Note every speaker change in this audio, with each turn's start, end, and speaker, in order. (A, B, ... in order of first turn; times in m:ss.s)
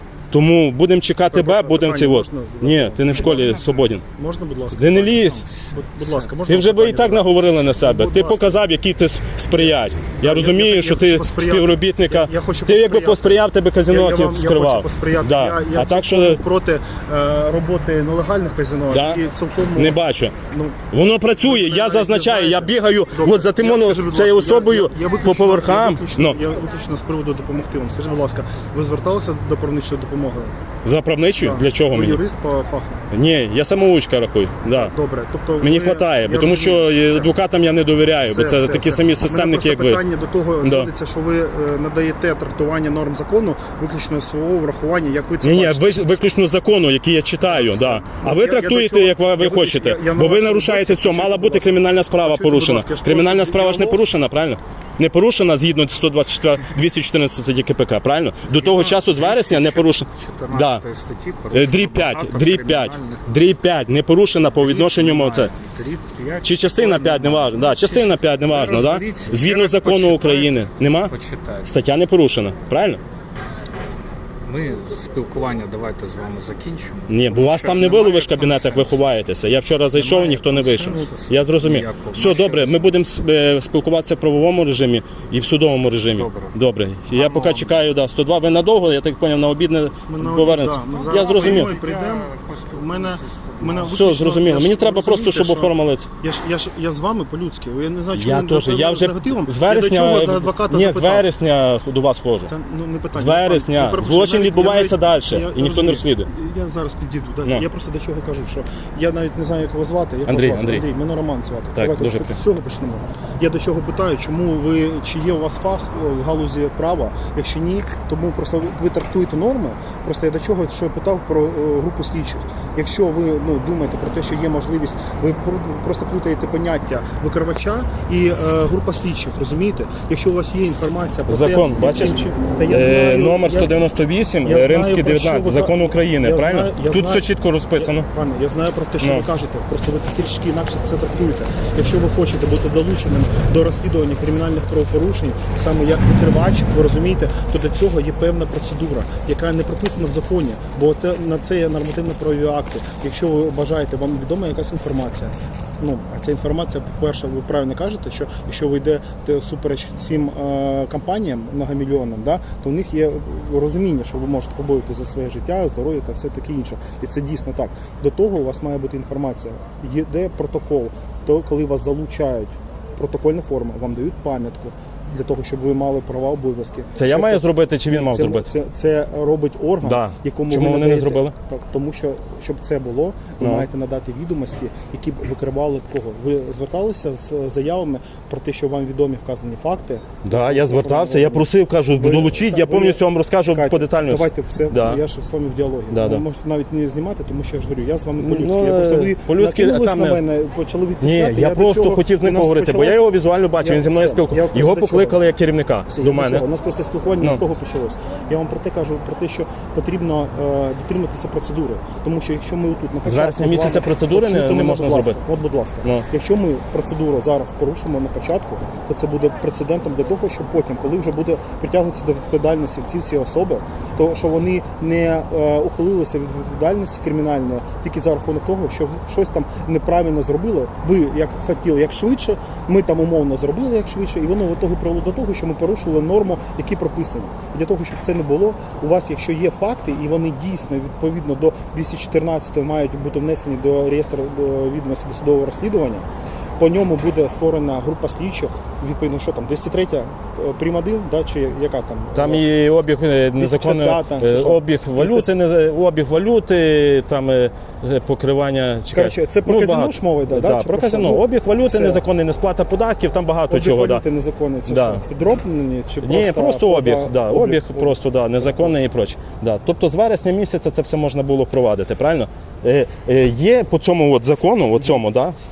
0:00.3-0:04.0 A
0:01.2-0:08.6 B
0:03.1-0:03.7 C
0:04.7-0:05.4 A
0:06.4-0:16.4 A
0:09.5-0:20.0 B
0:18.9-0:19.2 A
0:19.7-0:20.3 A
0:20.5-0:20.8 B
0:20.9-0:26.4 A
0:21.4-0:30.5 B
0:30.8-0:32.2 A
0:31.4-0:33.0 B
0:33.1-0:34.9 A
0:34.7-0:37.3 B
0:35.6-0:40.0 A
0:38.3-0:45.9 B
0:40.6-0:40.9 A
0:45.4-1:00.8 A
0:47.5-0:54.0 B
0:58.4-1:03.2 C
1:01.5-1:05.5 A
1:04.6-1:11.7 C
1:06.4-1:11.1 A
1:11.6-1:13.0 A
1:14.4-1:19.1 C
1:17.1-1:31.7 A
1:19.9-1:22.9 C
1:26.1-1:26.6 C
1:27.1-1:27.8 C
1:30.1-1:41.3 B
1:30.8-1:34.0 C
1:33.9-1:36.1 A
1:38.1-1:42.5 A
1:42.5-2:13.7 B
1:43.1-1:46.3 A
1:50.2-1:50.8 A
1:51.7-1:52.4 A
2:11.3-2:18.1 A
2:14.4-3:23.0 B
2:19.0-2:19.2 A
2:56.9-2:58.5 A
2:59.8-3:01.3 A
3:03.4-3:03.7 A
3:10.2-3:15.0 A
3:15.9-3:16.2 A
3:18.2-3:20.2 A
3:21.0-3:26.4 A
3:23.6-3:25.2 B
3:25.9-4:06.0 B
3:33.0-3:35.2 A
4:06.6-4:12.5 B
4:12.1-4:24.0 A
4:13.4-4:15.3 B
4:18.9-4:22.0 B
4:23.5-4:28.8 B
4:24.7-4:25.0 A
4:26.0-4:35.3 A